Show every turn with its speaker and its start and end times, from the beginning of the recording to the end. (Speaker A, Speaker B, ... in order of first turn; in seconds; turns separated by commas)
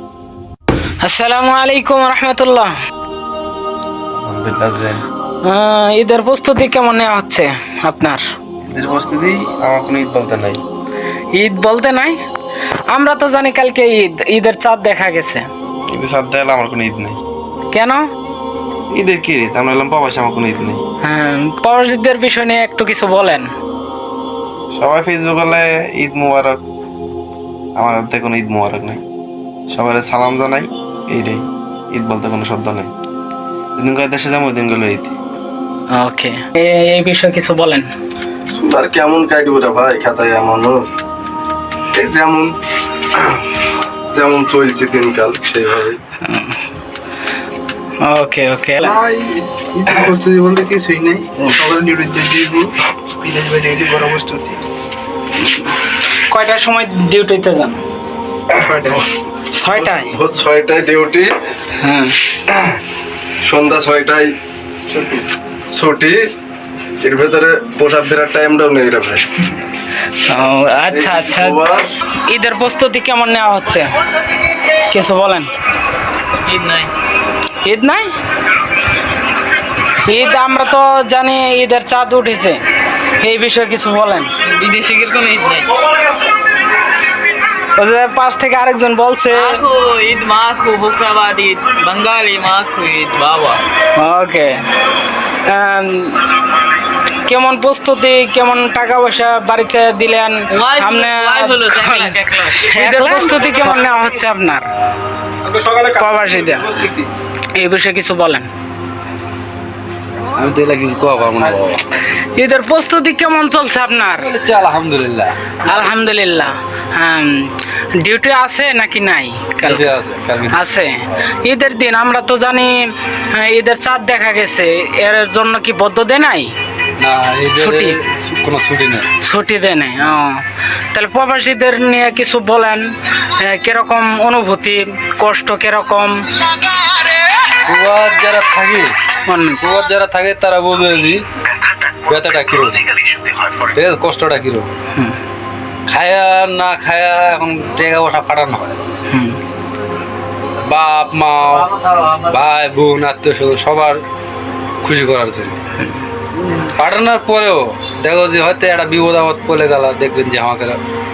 Speaker A: 1.0-2.7, Speaker B: 4.2-5.0, Speaker A: 5.4-8.2, Speaker B: 8.7-10.6, Speaker A: 11.3-12.2, Speaker A: 12.9-15.4, Speaker B: 15.9-17.2, Speaker A: 17.7-18.0, Speaker B: 18.9-20.8, Speaker A: 21.0-23.5, Speaker B: 24.7-26.6, Speaker B: 27.8-29.0, Speaker B: 29.7-31.4, Speaker B: 31.9-32.9, Speaker B: 33.8-35.1, Speaker A: 35.9-37.9, Speaker C: 38.6-40.8, Speaker C: 41.9-42.5, Speaker C: 44.1-46.0, Speaker A: 46.2-46.6, Speaker A: 48.0-49.0, Speaker D: 48.8-52.7, Speaker D: 53.2-54.6, Speaker A: 56.3-57.8, Speaker D: 58.6-59.0, Speaker A: 59.5-60.1, Speaker C: 59.7-61.3, Speaker A: 61.8-62.1, Speaker C: 63.4-64.3, Speaker C: 64.9-65.2, Speaker C: 65.7-66.2, Speaker C: 67.0-69.2, Speaker A: 70.3-71.6, Speaker C: 70.9-71.9, Speaker A: 72.3-73.9, Speaker A: 74.8-75.5, Speaker E: 76.4-76.9, Speaker A: 77.6-78.1, Speaker A: 80.0-82.6, Speaker A: 83.2-84.3, Speaker E: 84.4-85.7, Speaker A: 87.8-89.6, Speaker E: 89.3-93.6, Speaker A: 94.0-94.5, Speaker A: 95.4-96.2, Speaker A: 97.2-104.7, Speaker E: 100.5-103.8, Speaker A: 105.9-106.8, Speaker A: 107.5-108.5, Speaker F: 110.3-111.8, Speaker A: 112.3-114.3, Speaker F: 114.2-115.8, Speaker A: 115.7-119.8, Speaker F: 119.6-120.6, Speaker A: 120.5-122.7, Speaker A: 123.3-126.5, Speaker F: 127.0-129.1, Speaker A: 127.5-128.0, Speaker A: 129.2-130.4, Speaker A: 130.9-136.2, Speaker F: 137.7-138.9, Speaker A: 139.3-139.6, Speaker F: 139.6-141.2, Speaker F: 142.0-142.9, Speaker F: 143.5-144.7, Speaker F: 145.9-148.8, Speaker A: 149.1-149.4, Speaker F: 150.6-151.7, Speaker E: 151.5-152.3, Speaker F: 152.3-154.0, Speaker F: 154.8-155.6, Speaker F: 156.6-160.8